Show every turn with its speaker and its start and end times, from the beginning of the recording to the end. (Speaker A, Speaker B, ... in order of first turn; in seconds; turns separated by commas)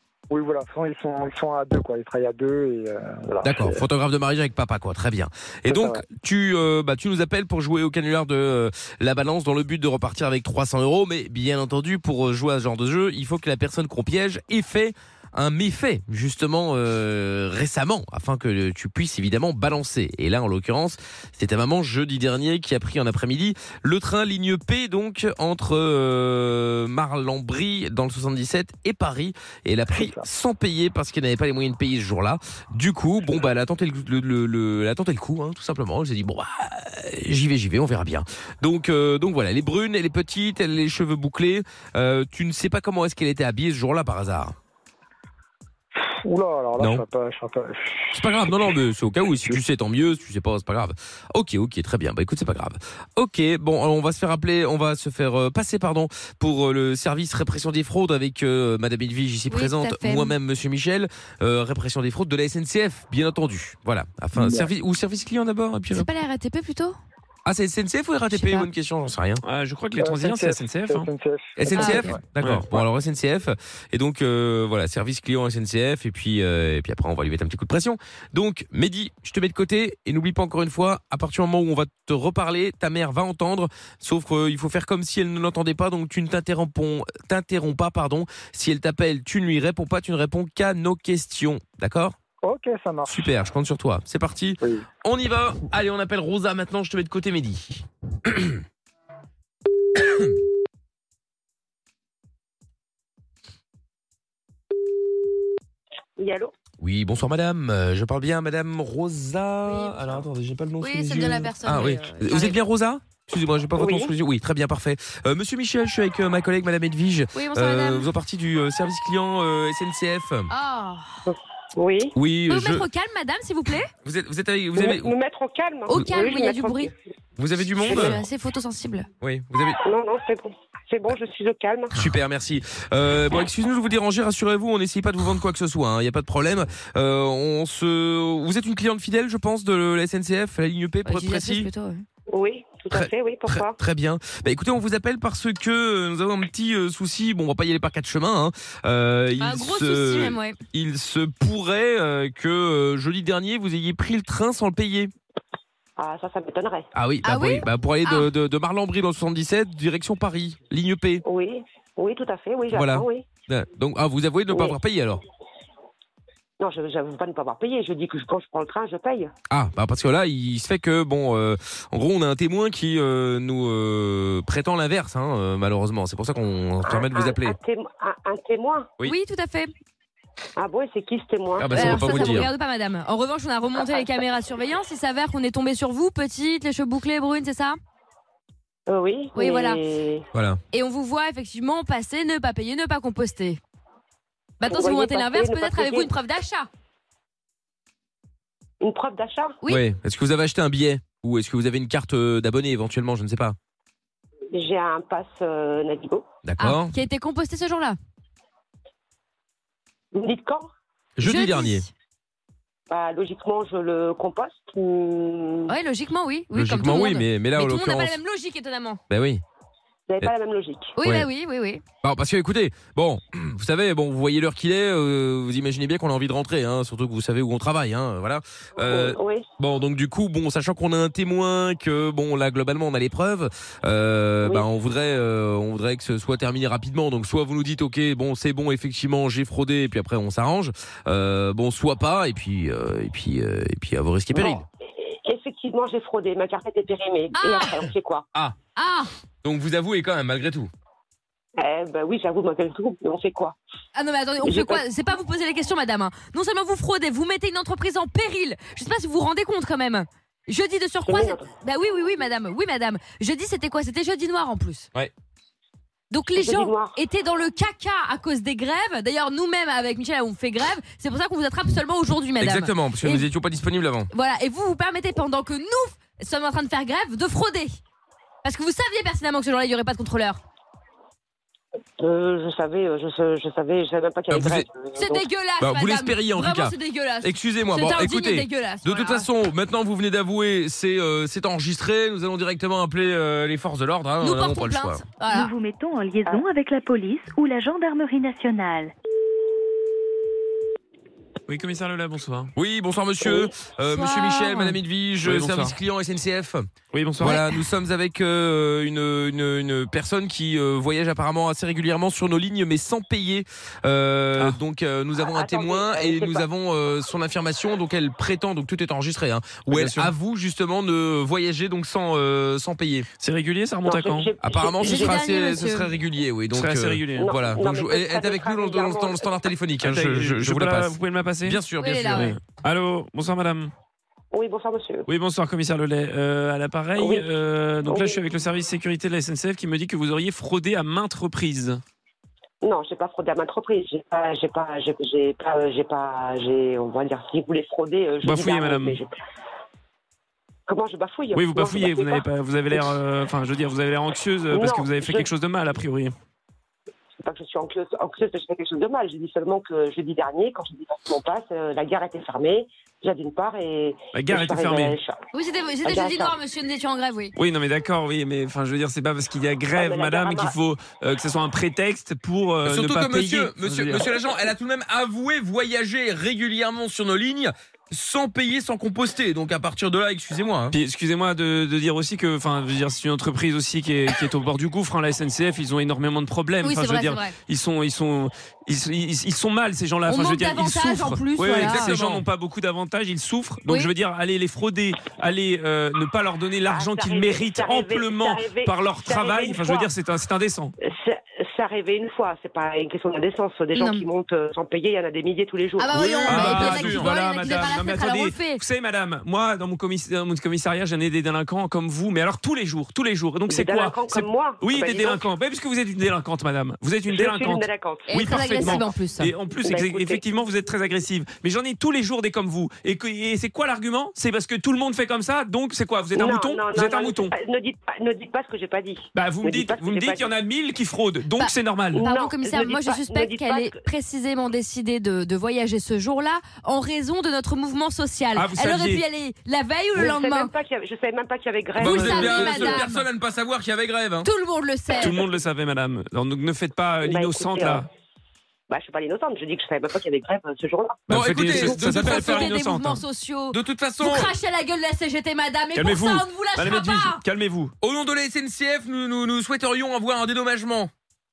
Speaker A: 0.3-3.8, Speaker B: 3.4-44.5, Speaker A: 5.7-6.0, Speaker A: 29.9-30.2, Speaker A: 46.0-48.1, Speaker B: 46.8-47.0, Speaker B: 48.1-66.1, Speaker C: 59.5-60.3, Speaker A: 64.3-64.7, Speaker C: 65.9-67.0, Speaker B: 67.4-69.4, Speaker C: 68.3-68.7, Speaker D: 69.4-71.1, Speaker A: 70.0-72.2, Speaker B: 71.6-92.2, Speaker C: 71.8-72.2, Speaker D: 72.4-72.6, Speaker A: 92.4-93.2, Speaker B: 93.1-98.6, Speaker A: 94.6-94.8, Speaker E: 106.2-106.5, Speaker B: 106.8-120.5, Speaker C: 109.7-110.1, Speaker C: 110.8-112.6, Speaker E: 113.8-114.1, Speaker C: 117.3-118.1, Speaker C: 120.5-121.2, Speaker E: 121.3-122.2, Speaker B: 122.2-122.8, Speaker C: 122.5-123.9, Speaker B: 124.0-125.1, Speaker E: 124.8-126.9, Speaker C: 125.9-126.9, Speaker B: 127.4-128.2, Speaker C: 127.8-129.1, Speaker E: 127.8-128.1, Speaker B: 129.2-129.8, Speaker E: 129.8-131.9, Speaker B: 131.9-141.7, Speaker C: 141.0-142.0, Speaker E: 142.3-143.8, Speaker B: 142.9-155.1, Speaker C: 149.4-150.6, Speaker E: 156.0-156.9, Speaker B: 156.9-161.2, Speaker C: 157.2-158.3, Speaker E: 161.2-163.2, Speaker B: 162.7-165.2, Speaker E: 166.6-169.3, Speaker B: 169.5-177.6, Speaker E: 176.8-178.9, Speaker C: 179.0-179.7, Speaker E: 180.6-182.2, Speaker B: 181.6-182.5, Speaker C: 181.7-187.8, Speaker E: 188.9-190.2, Speaker C: 189.3-189.8, Speaker B: 190.3-190.6, Speaker C: 190.7-193.6, Speaker C: 194.6-196.7, Speaker E: 194.7-196.1, Speaker E: 198.8-199.6, Speaker B: 199.7-203.6, Speaker E: 204.5-206.2, Speaker B: 206.4-206.9, Speaker C: 206.6-208.0, Speaker E: 210.1-210.7, Speaker B: 211.2-211.8, Speaker C: 211.2-211.9, Speaker E: 212.9-215.7, Speaker C: 215.7-219.0, Speaker B: 216.5-218.2, Speaker B: 219.1-219.4, Speaker E: 220.1-220.9, Speaker C: 221.0-221.8, Speaker B: 221.0-221.3, Speaker B: 222.0-244.6, Speaker E: 228.8-229.4, Speaker E: 244.3-248.2, Speaker C: 247.3-247.8, Speaker C: 248.8-249.1, Speaker B: 249.4-250.7, Speaker E: 251.6-253.6, Speaker C: 253.9-264.9, Speaker E: 254.4-254.8, Speaker E: 261.0-261.5, Speaker C: 266.1-273.3, Speaker E: 266.4-266.9, Speaker B: 272.4-274.1, Speaker C: 274.1-277.8, Speaker C: 278.4-280.4, Speaker E: 282.0-285.2, Speaker B: 284.3-284.7, Speaker C: 284.9-289.3, Speaker B: 285.6-295.0, Speaker C: 294.2-295.5, Speaker F: 295.2-298.9, Speaker D: 301.5-302.5, Speaker B: 302.6-323.1, Speaker C: 303.9-304.8, Speaker D: 305.2-305.7, Speaker D: 306.9-307.4, Speaker E: 315.3-316.4, Speaker D: 319.7-320.1, Speaker D: 323.2-324.3, Speaker E: 323.8-325.2, Speaker B: 324.4-332.3, Speaker C: 324.8-325.9, Speaker D: 326.5-327.3, Speaker E: 327.2-329.3, Speaker D: 329.8-333.7, Speaker C: 331.8-332.4, Speaker E: 334.3-335.1, Speaker D: 335.1-341.8, Speaker E: 337.0-337.3, Speaker E: 337.9-338.2, Speaker E: 342.6-349.1, Speaker D: 348.2-349.0, Speaker E: 350.7-352.9, Speaker D: 351.3-356.1, Speaker E: 354.5-355.3, Speaker E: 357.2-365.2, Speaker D: 364.1-365.0, Speaker C: 365.3-367.3, Speaker E: 365.8-366.3, Speaker D: 367.4-374.1, Speaker E: 369.8-370.5, Speaker B: 372.6-380.8, Speaker D: 380.7-400.7, Speaker C: 386.6-387.3, Speaker C: 390.1-392.0, Speaker B: 391.6-392.2, Speaker C: 393.7-393.9, Speaker E: 396.7-399.9, Speaker E: 400.8-406.2, Speaker C: 403.7-404.0, Speaker C: 405.8-408.6, Speaker D: 405.9-427.3, Speaker B: 406.2-407.1, Speaker E: 413.5-415.2, Speaker E: 417.1-418.8, Speaker C: 418.1-419.3, Speaker E: 419.6-420.2, Speaker E: 426.1-430.3, Speaker D: 429.1-432.0, Speaker C: 431.4-440.5, Speaker E: 431.9-433.8, Speaker D: 438.3-439.0, Speaker E: 439.9-442.8, Speaker B: 441.8-444.3, Speaker C: 441.8-443.0, Speaker C: 444.2-445.2, Speaker D: 445.0-447.9, Speaker E: 447.0-447.8, Speaker E: 448.7-451.5, Speaker D: 451.1-453.0, Speaker B: 451.1-452.5, Speaker C: 451.6-457.2, Speaker B: 453.5-454.3, Speaker D: 455.7-457.7, Speaker B: 457.8-460.9